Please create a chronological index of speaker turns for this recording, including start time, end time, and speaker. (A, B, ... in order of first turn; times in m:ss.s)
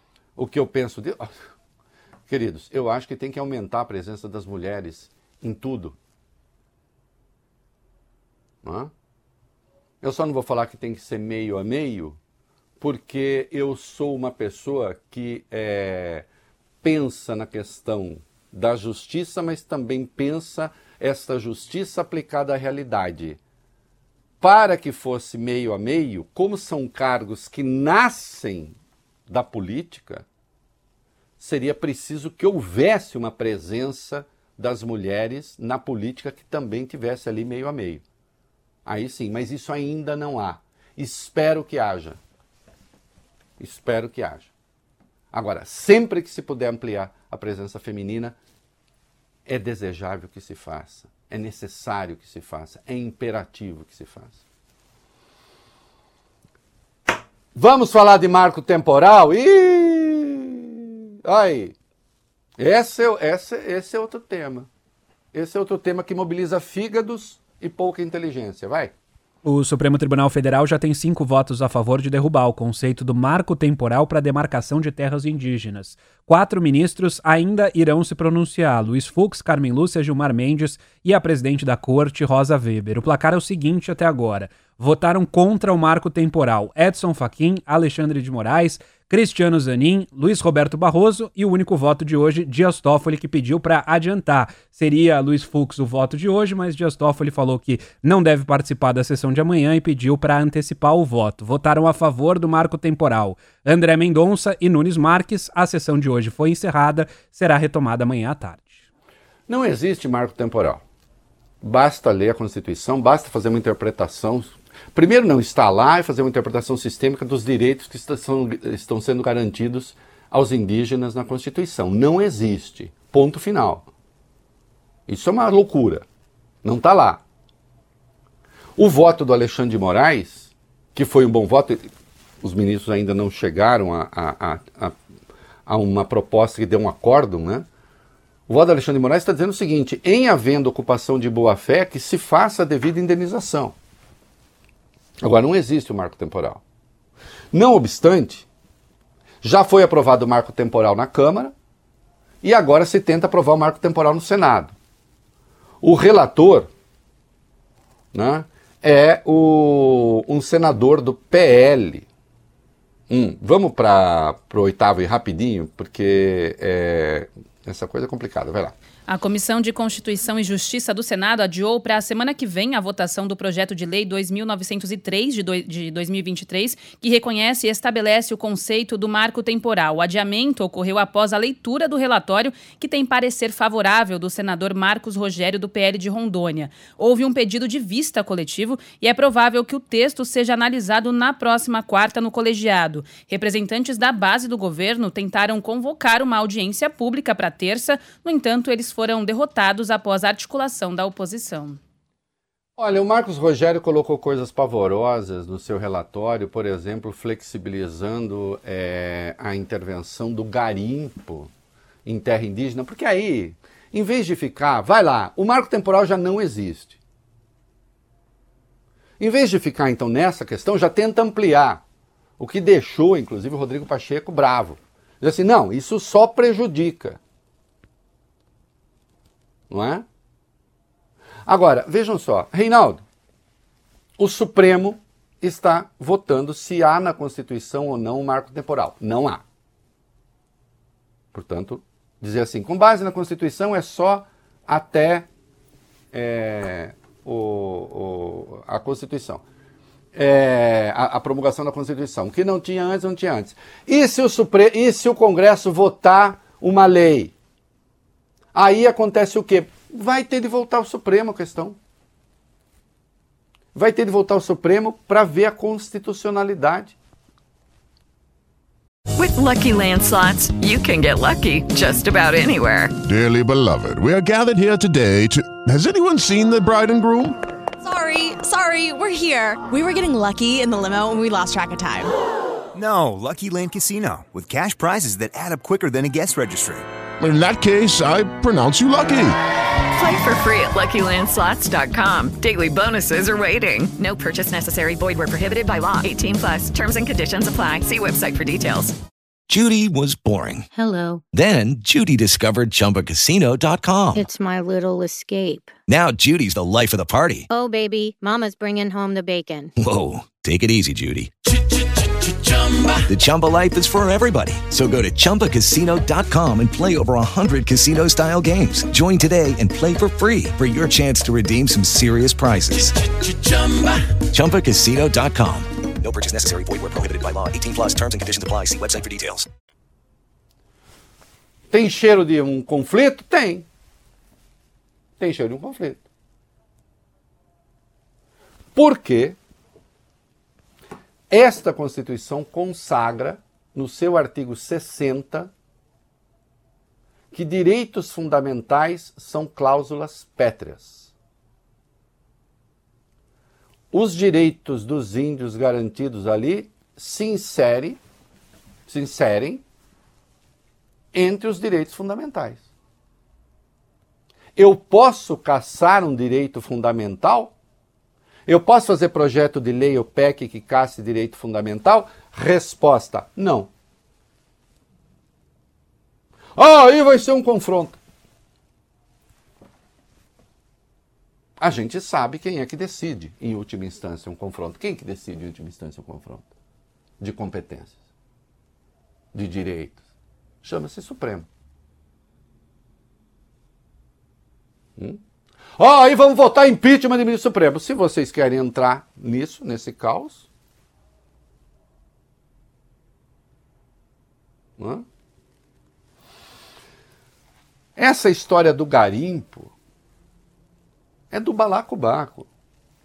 0:00.4-0:01.4 A
0:02.3-0:06.0 A
0:08.6-0:08.9 A
0:10.0-0:12.2 A
0:12.8-0:16.3 A
0:16.8-0:23.4 A
0:24.4-0:28.8 A
0:29.3-0:30.2 A
0:31.4-0:38.0 A
0:38.9-0:42.2 A
0:43.6-0:44.5 A
0:45.3-0:48.4 A
0:49.5-0:54.4 A
0:57.6-1:01.8 A
1:02.6-1:04.7 A
1:05.3-1:08.9 A
1:09.4-1:48.9 B
1:49.5-1:50.8 A
1:51.6-2:03.9 A
2:05.1-2:06.0 A
2:06.6-2:07.2 A
2:08.8-2:11.9 A
2:12.4-2:14.9 A
2:15.7-2:17.7 A
2:18.5-2:23.8 A
2:25.2-2:26.6 A
2:27.5-2:28.5 A
2:29.4-2:31.5 A
2:32.4-2:34.7 A
2:35.8-2:36.7 A
2:38.1-2:42.1 A
2:43.1-2:48.7 A
2:49.1-3:21.8 C
3:22.8-3:31.5 A
3:32.1-3:37.0 A
3:39.2-3:41.8 A
3:42.4-3:47.2 A
3:49.7-3:50.0 A
3:51.5-3:53.0 A
3:54.2-3:59.4 A
4:01.3-4:05.3 A
4:06.1-4:09.4 A
4:10.1-4:17.3 A
4:18.5-4:21.8 A
4:23.8-4:27.0 A
4:29.2-4:32.9 D
4:33.0-4:37.4 E
4:37.8-4:42.1 F
4:42.8-4:46.8 G
4:47.2-4:49.4 E
4:49.9-4:59.0 D
4:59.5-5:00.7 H
5:00.7-5:01.2 I
5:01.3-5:04.3 H
5:04.1-5:05.8 I
5:05.9-5:07.5 H
5:07.5-5:09.7 I
5:09.8-5:11.3 H
5:13.1-5:23.0 H
5:24.3-5:25.7 H
5:26.0-5:29.5 J
5:31.7-5:33.7 A
5:35.2-5:36.0 A
5:38.8-5:39.4 A
5:41.3-5:45.5 A
5:47.3-5:51.1 A
5:53.9-5:58.0 A
5:58.9-5:59.6 A
6:01.1-6:02.6 A
6:04.6-6:07.5 A
6:08.5-6:13.7 A
6:16.6-6:18.0 A
6:21.6-6:26.5 A
6:27.2-6:28.0 A
6:29.3-6:30.0 A
6:30.6-6:31.5 A
6:35.8-6:40.5 A
6:44.8-6:45.0 A
6:48.0-6:49.7 A
6:51.3-6:52.5 A